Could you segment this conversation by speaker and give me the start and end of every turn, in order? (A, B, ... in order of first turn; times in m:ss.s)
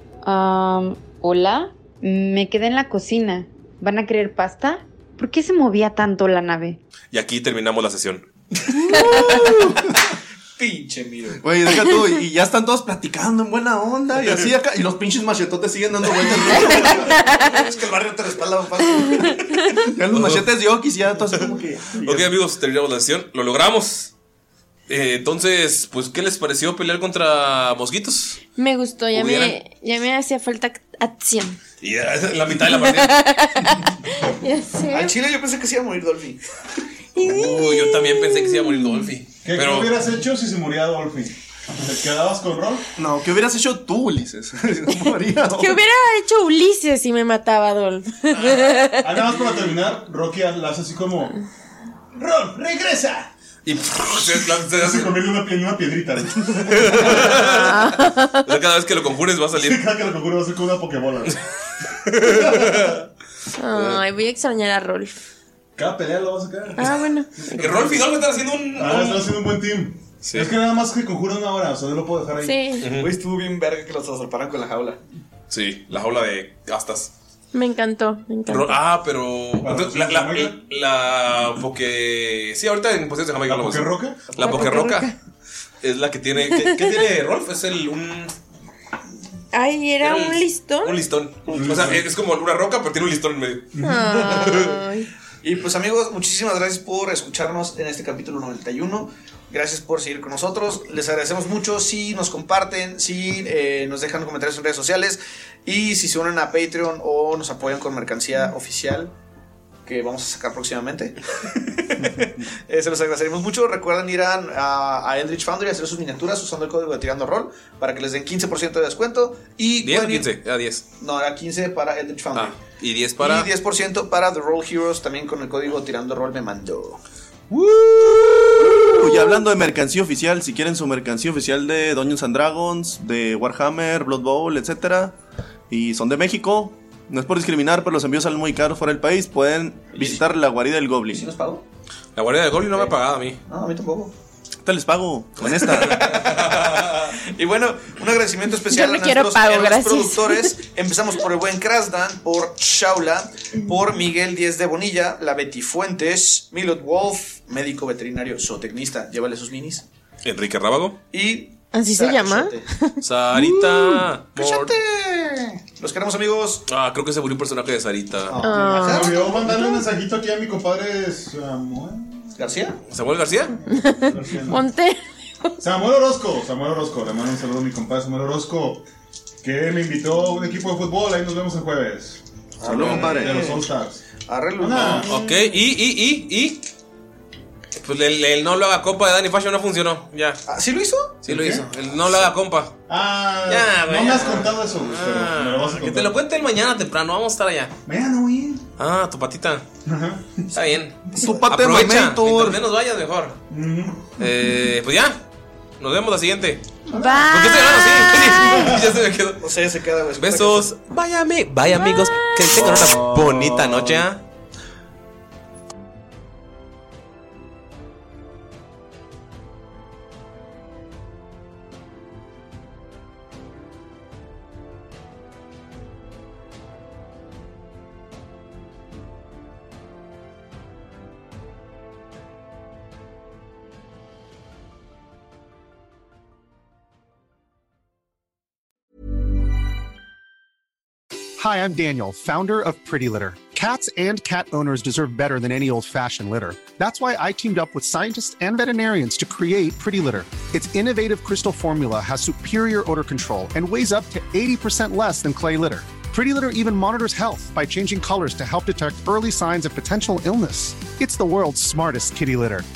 0:00.2-0:06.8 A
0:07.1-0:08.3 B
0:08.9-0:09.9 C
0:10.6-0:11.4 D
0:11.4-0:17.1 C
0:16.2-0:19.5 D
0:17.0-0:17.5 E
0:19.0-0:19.9 E
0:19.8-0:22.2 C
0:20.1-0:20.5 B
0:22.0-0:24.1 B
0:24.9-0:28.4 B
0:28.5-0:31.6 E
0:29.1-0:29.6 B
0:31.8-0:33.2 B
0:32.8-0:35.1 E
0:34.9-0:36.4 D
0:37.1-0:39.1 E
0:37.2-0:40.0 B
0:39.4-0:42.9 F
0:43.0-0:45.8 C
0:45.5-0:49.2 E
0:49.0-0:51.4 F
0:52.1-0:53.3 F
0:53.6-0:55.2 B
0:54.2-0:57.6 F
0:56.6-0:59.8 B
0:57.4-0:58.5 E
0:59.5-1:01.4 F
1:02.1-1:03.0 B
1:02.1-1:03.0 F
1:03.6-1:05.2 E
1:03.7-1:04.0 B
1:05.8-1:08.2 F
1:06.8-1:07.3 E
1:07.5-1:09.4 B
1:08.7-1:12.7 F
1:10.2-1:10.6 B
1:12.4-1:12.8 E
1:12.8-1:13.1 B
1:13.0-1:15.0 D
1:15.5-1:17.1 B
1:17.5-1:18.8 E
1:18.5-1:25.1 B
1:19.6-1:20.6 F
1:23.5-1:24.5 F
1:24.4-1:25.1 E
1:25.8-1:28.4 B
1:26.5-1:26.9 E
1:29.5-1:31.0 E
1:30.0-1:33.8 B
1:31.5-1:32.0 F
1:33.7-1:34.2 F
1:33.8-1:35.1 E
1:33.9-1:34.7 D
1:34.5-1:34.7 B
1:35.4-1:49.1 D
1:49.8-2:00.3 D
1:59.8-2:00.8 B
2:01.0-2:02.6 D
2:02.3-2:03.5 B
2:03.2-2:07.0 D
2:07.5-2:09.0 B
2:08.7-2:15.2 C
2:15.7-2:21.3 C
2:20.0-2:20.2 D
2:21.1-2:21.6 D
2:22.2-2:23.4 B
2:23.5-2:24.1 D
2:24.6-2:26.1 C
2:25.4-2:27.2 B
2:25.8-2:39.8 D
2:28.5-2:30.6 E
2:40.2-2:41.0 B
2:41.1-2:42.7 D
2:41.7-2:43.0 E
2:43.0-2:44.7 B
2:44.4-2:46.6 D
2:46.7-2:48.4 B
2:48.3-2:49.4 D
2:48.4-2:49.8 E
2:48.8-2:52.4 F
2:52.4-2:52.8 D
2:52.9-2:53.6 B
2:53.6-2:54.6 F
2:53.7-2:55.6 E
2:55.6-2:58.8 F
2:59.4-3:04.0 F
3:02.6-3:03.6 C
3:02.6-3:03.6 D
3:04.3-3:05.1 D
3:04.6-3:05.6 F
3:05.0-3:06.7 B
3:07.7-3:10.4 B
3:10.5-3:11.2 D
3:11.2-3:12.8 B
3:11.3-3:11.7 F
3:12.9-3:16.1 F
3:13.4-3:17.7 B
3:14.0-3:14.5 D
3:17.8-3:18.6 F
3:18.8-3:19.6 B
3:19.8-3:20.5 F
3:20.5-3:23.4 B
3:21.1-3:21.5 D
3:21.2-3:22.6 C
3:23.5-3:24.1 F
3:24.2-3:25.2 B
3:25.8-3:26.7 B
3:26.9-3:28.6 E
3:26.9-3:27.2 F
3:27.2-3:29.5 B
3:28.4-3:28.8 F
3:29.4-3:30.7 D
3:30.2-3:34.2 B
3:32.6-3:34.0 C
4:01.4-4:22.7 G